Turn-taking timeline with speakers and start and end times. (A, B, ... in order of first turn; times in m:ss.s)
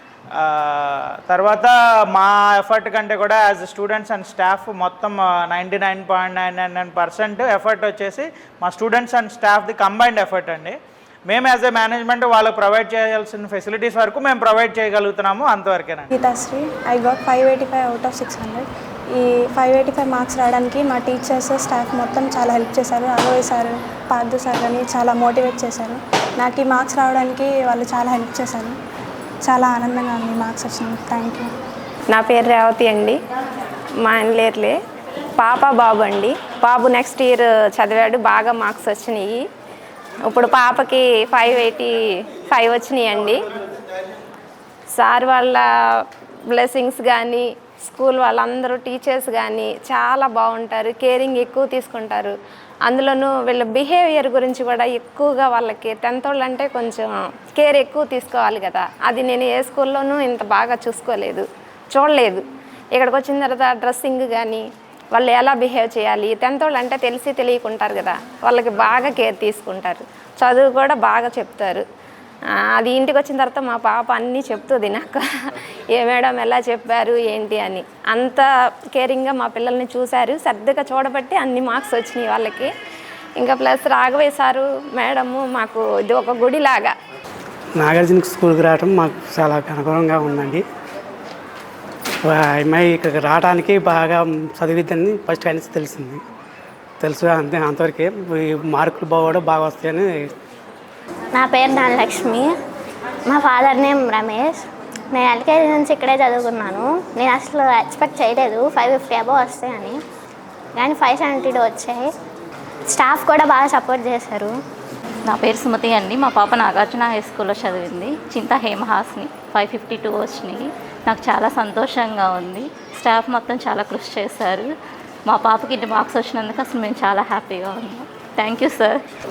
0:00.3-0:10.8 A
0:11.3-0:16.1 A
0:16.1-0:28.8 B
0:29.4-0:31.5 B
0:32.1-0:33.2 C
0:34.0-0:34.8 C
0:35.4-0:39.5 C
0:40.3-0:43.5 C
0:44.9-1:11.8 C
1:12.5-1:22.7 C
1:23.4-1:27.0 C
1:27.8-1:30.6 D
1:32.3-1:36.2 D
1:37.0-1:40.3 D
1:41.3-1:42.5 E
1:43.3-1:50.0 E
1:50.8-1:52.1 E
1:52.9-1:54.5 E
1:55.3-2:04.7 F
2:05.3-2:09.0 F